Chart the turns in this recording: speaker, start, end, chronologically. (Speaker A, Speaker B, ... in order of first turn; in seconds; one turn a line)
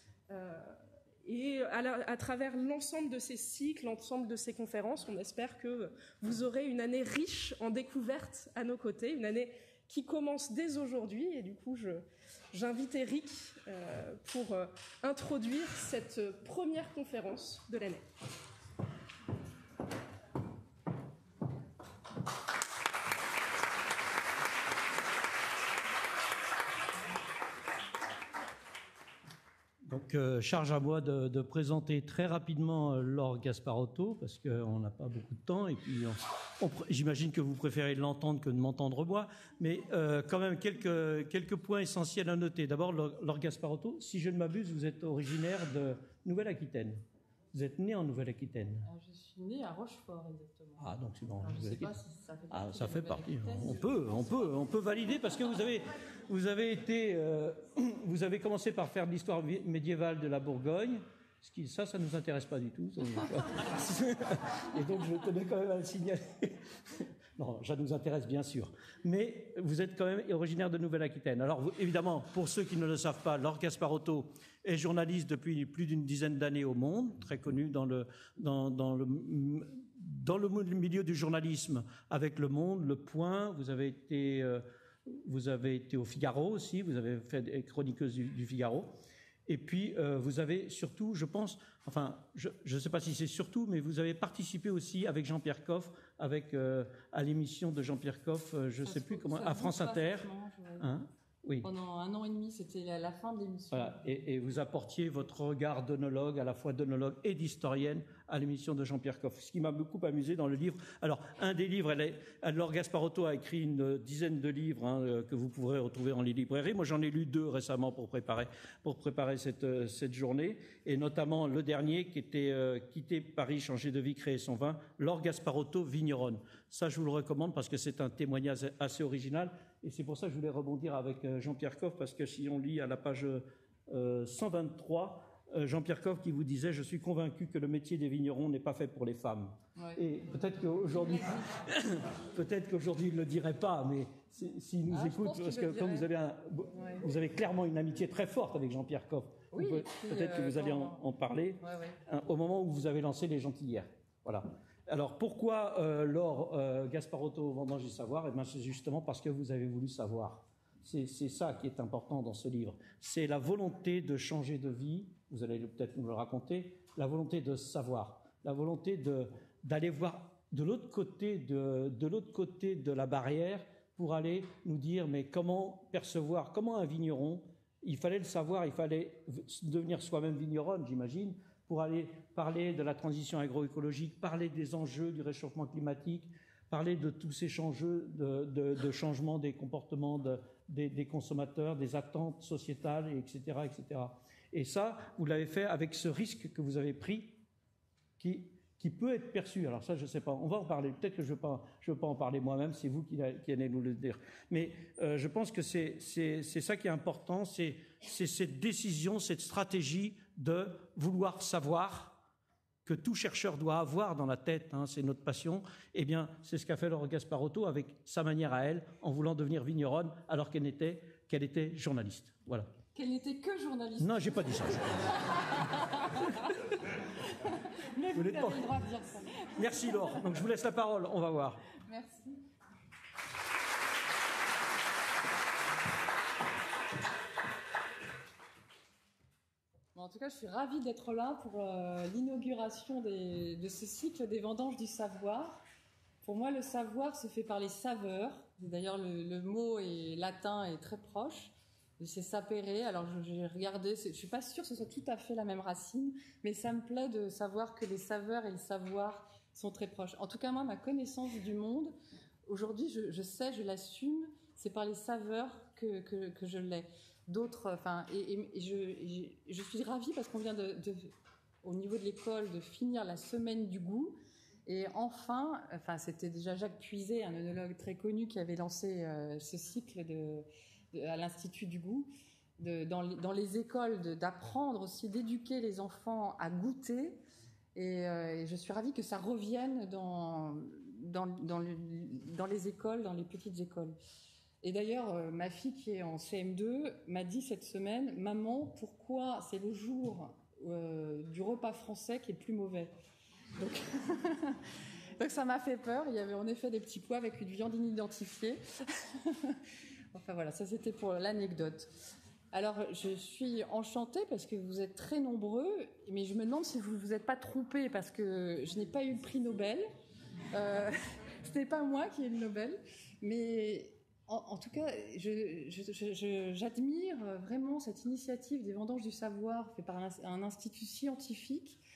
Speaker A: 0.3-18.1
Speaker B: 29.8-48.9
Speaker C: 48.9-50.9
Speaker B: 50.8-51.9
Speaker C: 51.4-53.8
Speaker B: 52.5-88.9
Speaker B: 89.5-101.7
Speaker C: 98.8-100.9
Speaker C: 101.6-104.2
Speaker B: 103.7-197.4
Speaker C: 144.9-146.1
Speaker C: 146.7-147.0
Speaker C: 149.5-151.0
Speaker C: 151.6-151.9
Speaker B: 198.2-212.2
Speaker B: 212.8-222.7
Speaker C: 222.9-226.4
Speaker B: 224.0-225.2
Speaker C: 227.8-229.4
Speaker B: 228.1-228.7
Speaker B: 229.5-231.6
Speaker C: 231.9-232.4
Speaker C: 239.9-245.6
Speaker C: 246.2-261.9
Speaker C: 262.5-271.1
Speaker C: 271.6-287.2
Speaker C: 287.8-294.0
Speaker C: 294.6-302.9
Speaker C: 303.6-304.6
Speaker C: 305.2-309.6
Speaker C: 310.1-311.9
Speaker C: 312.5-319.9
Speaker C: 320.5-331.8